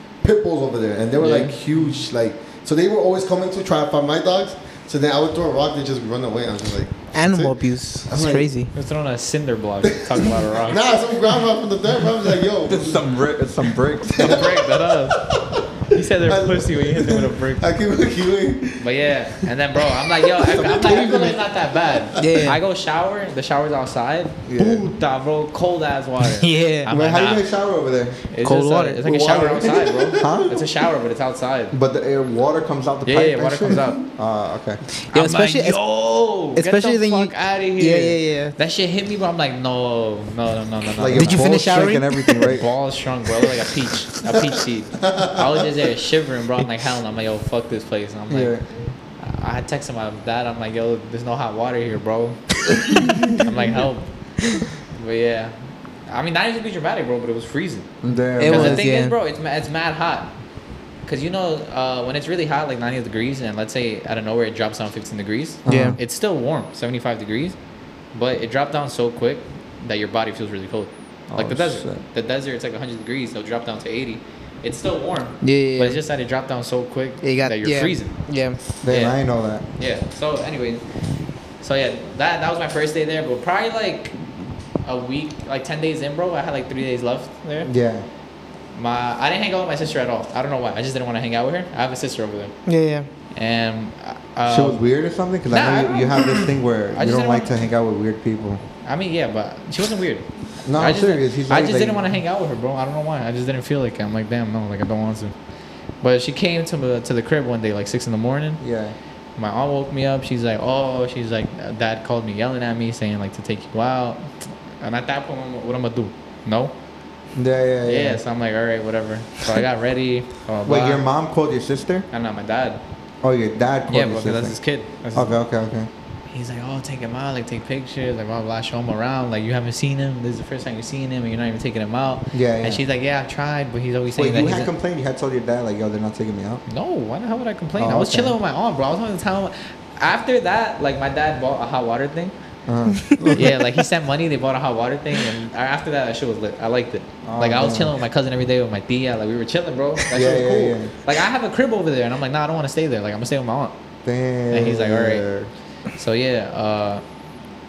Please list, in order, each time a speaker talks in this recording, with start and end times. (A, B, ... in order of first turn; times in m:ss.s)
0:00.2-0:08.5 A
0:01.2-0:01.6 B
0:07.1-0:08.7 C
0:08.7-0:10.9 B
0:10.6-0:13.0 A
0:12.7-0:14.5 D
0:14.2-0:14.4 A
0:14.2-0:15.3 B
0:15.2-0:15.6 A
0:15.9-0:17.7 B
0:16.2-0:18.8 A
0:18.8-0:27.4 B
0:20.0-0:22.0 A
0:20.6-0:21.3 D
0:22.2-0:22.6 C
0:24.4-0:24.9 D
0:26.3-0:26.9 C
0:26.9-0:28.2 D
0:28.3-0:31.7 B
0:28.4-0:29.4 C
0:29.2-0:30.3 A
0:30.2-0:30.6 D
0:31.7-0:34.8 D
0:33.0-0:34.0 B
0:35.0-0:35.8 C
0:35.1-0:41.4 B
0:36.5-0:38.5 C
0:41.0-0:42.7 D
0:41.1-0:42.5 C
0:42.4-0:48.6 B
0:48.3-0:48.6 D
0:49.2-0:55.5 B
0:56.1-1:00.3 B
0:58.0-0:58.8 D
0:58.4-0:59.1 C
1:01.0-1:07.6 B
1:05.6-1:06.0 D
1:05.6-1:06.0 C
1:08.1-1:18.2 B
1:11.3-1:12.0 D
1:15.4-1:16.0 C
1:17.2-1:18.6 C
1:18.8-1:19.6 D
1:18.8-1:19.2 B
1:19.8-1:20.8 B
1:21.6-1:24.2 B
1:24.8-1:27.7 B
1:27.6-1:28.0 D
1:28.7-1:32.5 B
1:32.6-1:33.1 C
1:33.3-1:34.8 B
1:34.4-1:38.6 D
1:35.5-1:37.5 B
1:38.8-1:45.3 B
1:40.6-1:42.1 D
1:46.0-1:48.6 B
1:48.6-1:49.0 D
1:49.4-1:56.7 B
1:57.3-1:58.2 D
1:57.8-2:01.0 B
2:00.6-2:02.0 D
2:02.1-2:02.8 B
2:03.2-2:04.5 D
2:03.9-2:05.4 B
2:05.1-2:05.9 D
2:06.3-2:14.7 B
2:12.3-2:12.8 D
2:14.1-2:16.6 D
2:16.7-2:22.3 B
2:17.8-2:18.4 D
2:22.7-2:23.5 D
2:23.3-2:33.7 B
2:27.2-2:27.9 D
2:30.1-2:30.9 D
2:34.0-2:35.5 D
2:34.5-2:35.2 B
2:35.9-2:37.0 B